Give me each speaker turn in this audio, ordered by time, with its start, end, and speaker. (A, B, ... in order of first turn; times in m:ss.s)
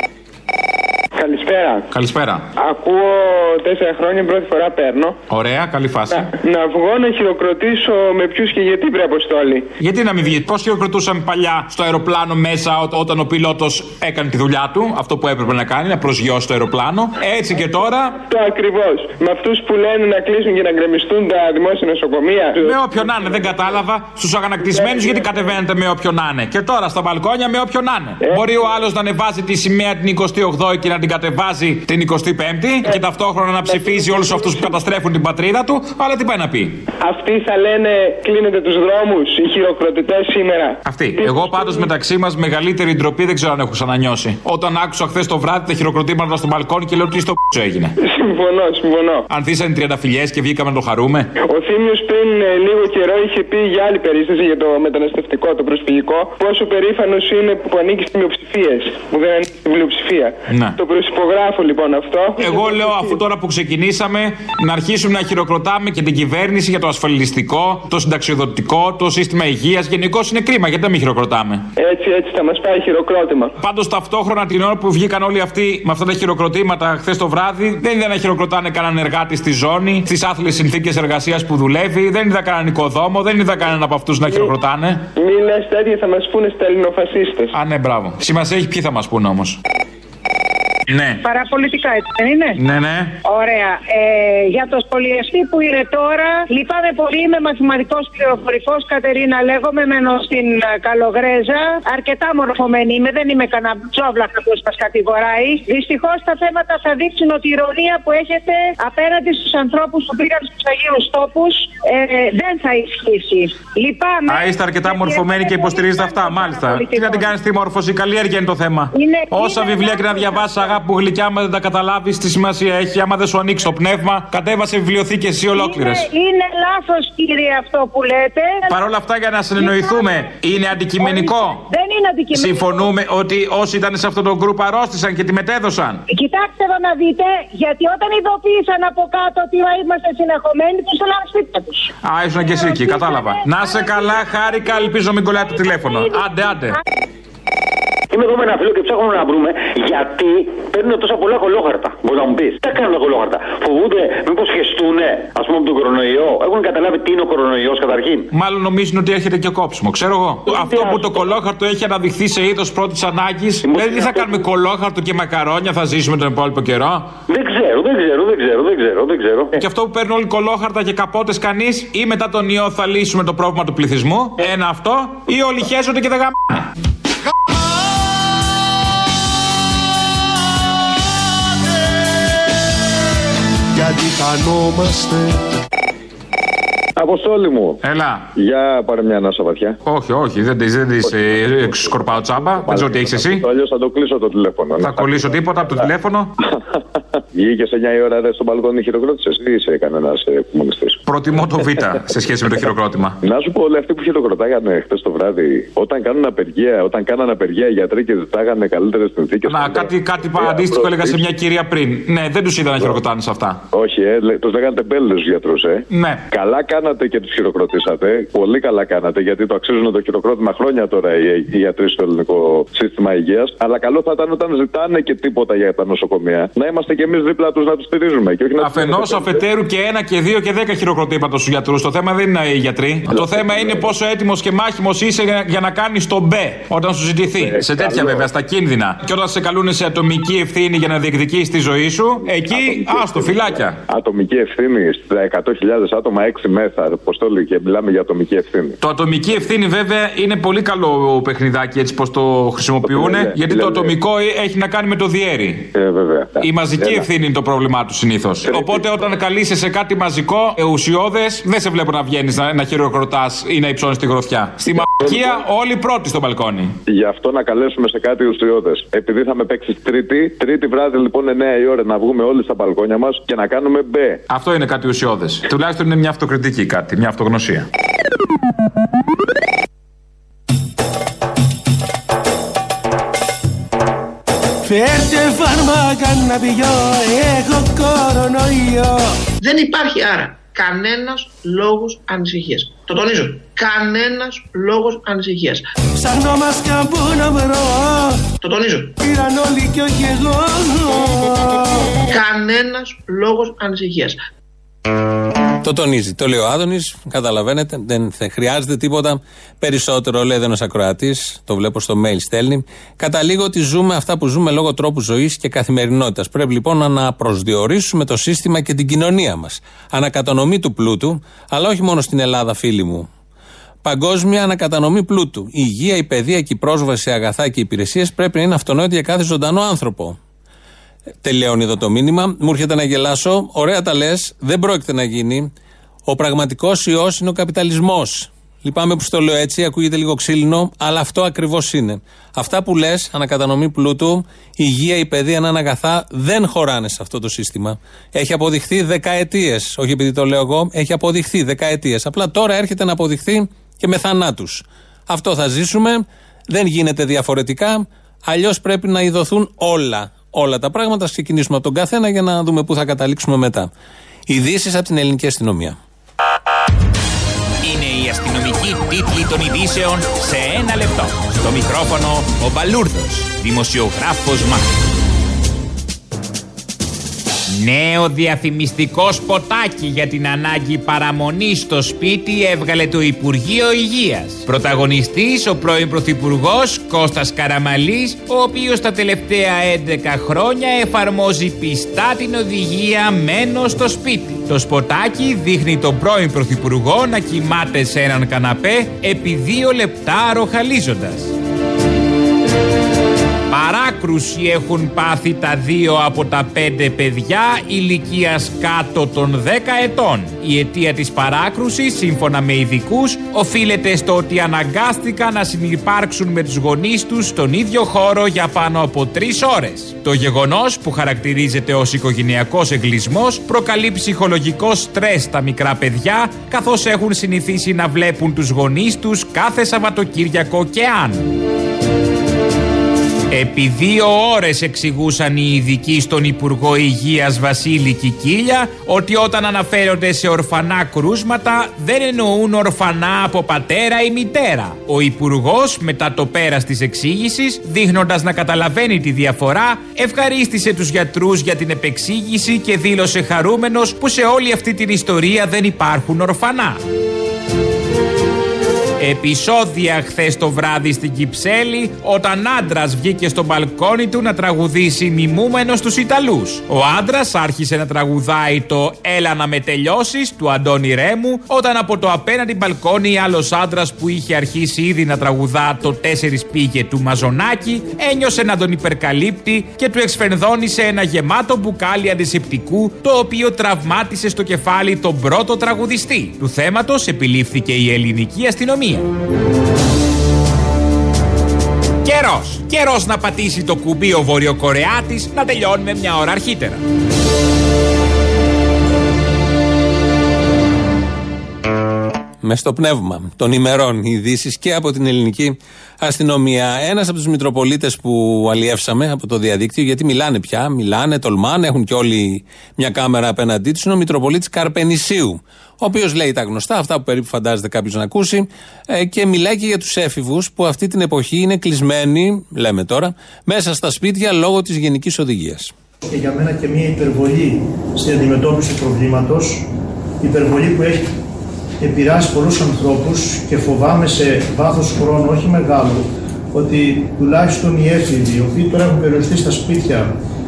0:01.2-0:01.9 A
0:01.9-0:02.4 B
0:02.6-0:05.2 A
0:05.3-0:06.3 B
0:06.1-0:09.7 A
0:09.8-0:18.2 B
0:18.1-0:22.8 A
0:22.5-0:36.8 B
0:28.2-0:28.6 A
0:37.0-0:41.7 A
0:40.9-0:47.9 B
0:48.0-0:49.3 A
0:49.3-0:51.3 B
0:51.5-1:03.2 A
1:00.5-1:00.8 B
1:02.4-1:11.6 B
1:11.8-1:13.5 A
1:13.6-1:25.0 B
1:24.2-1:24.5 A
1:25.2-1:27.5 A
1:27.5-1:29.6 B
1:30.9-1:31.2 B
1:31.2-1:32.6 C
1:32.6-1:33.1 B
1:33.2-1:57.3 C
1:54.3-2:06.0 B
1:58.9-2:00.8 C
2:05.5-2:08.8 C
2:08.7-2:11.6 B
2:09.6-2:10.2 C
2:11.0-2:12.9 C
2:12.4-2:16.0 B
2:16.1-2:21.9 C
2:22.0-2:26.8 B
2:22.5-2:24.9 C
2:25.6-2:26.8 C
2:28.1-2:38.3 D
2:38.3-2:47.1 B
2:43.6-2:44.4 D
2:47.3-2:49.6 D
2:49.6-2:56.7 B
3:03.8-3:05.1 E
3:07.0-3:07.8 F
3:07.8-3:08.2 B
3:08.4-3:09.8 F
3:09.9-3:13.4 B
3:11.0-3:15.9 F
3:14.8-3:16.3 B
3:17.3-3:21.0 F
3:21.1-3:23.2 B
3:22.5-3:31.3 F
3:29.5-3:33.6 B
3:33.7-3:49.4 F
3:35.9-3:36.2 B
3:48.6-4:03.8 B
3:53.1-3:54.0 F
3:57.3-3:58.3 F
4:02.3-4:08.8 F
4:08.8-4:15.6 B
4:12.8-4:14.0 F
4:15.7-4:17.1 F
4:16.4-4:26.7 B
4:18.4-4:19.2 F
4:24.8-4:25.4 F
4:26.9-4:34.2 F
4:34.3-4:37.6 B
4:44.6-4:49.1 G
4:49.4-4:55.6 H
4:56.0-4:58.2 G
4:58.4-4:58.9 H
4:59.0-5:01.8 G
5:02.1-5:04.2 H
5:05.6-5:23.1 I
5:23.8-5:30.2 I
5:31.2-5:35.5 I
5:36.1-6:03.7 I
6:04.3-6:05.8 I
6:07.6-6:14.7 B
6:17.5-6:41.4 B
6:43.5-7:11.3 B
7:13.3-7:36.8 B
7:39.0-8:09.1 B
8:12.0-8:16.8 B
8:22.4-8:45.7 I
8:46.0-8:49.7 E
8:50.2-8:51.1 E
8:51.8-9:00.1 E